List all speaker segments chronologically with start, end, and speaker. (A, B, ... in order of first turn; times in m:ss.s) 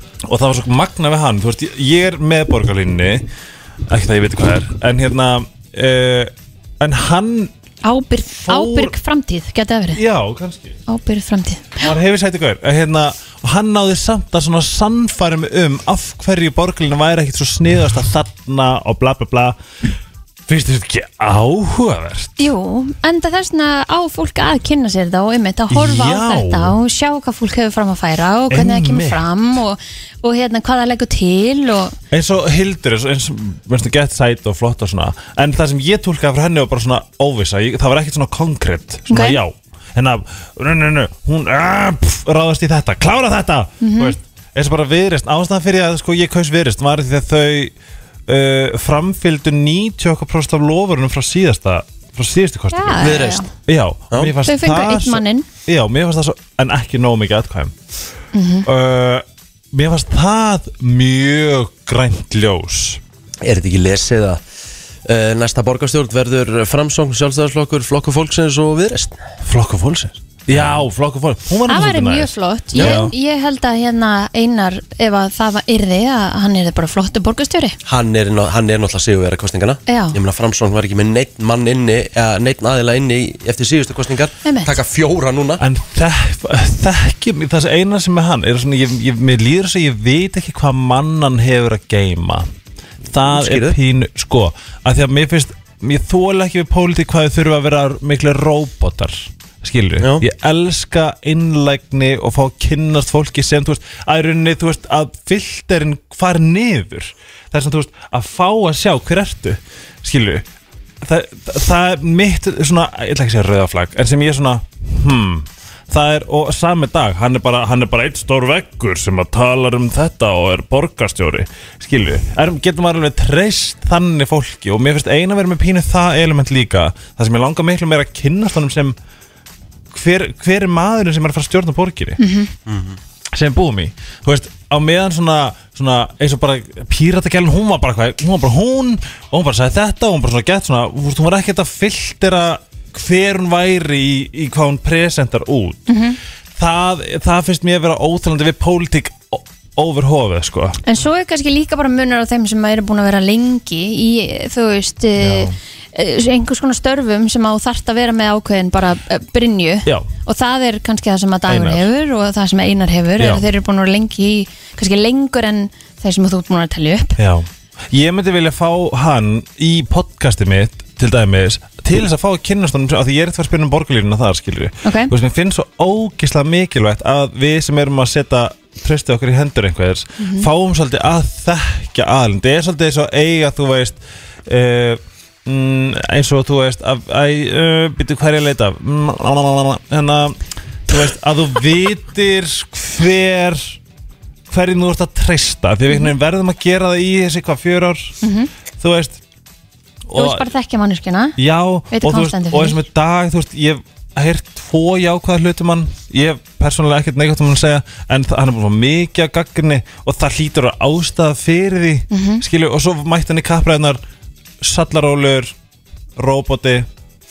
0:00.3-0:03.2 A
0:03.9-0:07.5 A
0:07.8-0:10.0 B
0:08.4-0:09.0 A
0:09.9-0:10.8 A
0:10.9-0:11.9 B
0:11.8-0:19.6 A
0:20.5-0:22.3 A
0:22.4-0:32.0 B
0:25.7-0:26.8 A
0:28.5-0:29.2 A
0:32.1-0:47.7 A
0:39.1-0:39.4 B
0:43.8-0:44.2 B
0:48.3-0:57.8 A
0:52.7-0:53.5 B
0:53.0-0:53.4 C
0:54.4-0:55.5 B
0:58.3-0:58.7 B
0:58.7-1:03.0 A
1:03.4-1:04.4 C
1:05.0-1:09.2 C
1:09.4-1:13.1 A
1:10.5-1:10.8 C
1:11.7-1:17.8 B
1:12.8-1:13.0 C
1:17.9-1:25.6 C
1:19.9-1:20.2 B
1:24.4-1:24.8 B
1:25.6-1:32.5 A
1:33.1-1:50.5 A
1:33.2-1:33.8 C
1:51.0-2:09.0 A
2:09.9-2:12.2 A
2:12.2-2:12.5 B
2:12.7-2:13.0 C
2:13.3-2:25.9 A
2:25.9-2:26.2 B
2:26.6-2:30.8 A
2:30.9-2:47.2 B
2:35.2-2:35.6 A
2:41.5-2:41.9 A
2:43.2-2:43.5 A
2:47.2-3:13.8 A
2:54.8-2:55.1 B
3:00.2-3:00.5 B
3:14.5-3:18.1 A
3:18.2-3:18.5 B
3:18.8-3:19.2 A
3:20.1-3:20.5 A
3:20.2-3:21.4 B
3:21.4-3:34.0 A
3:21.9-3:22.8 B
3:32.1-3:32.4 B
3:34.6-3:35.5 A
3:36.2-3:36.9 A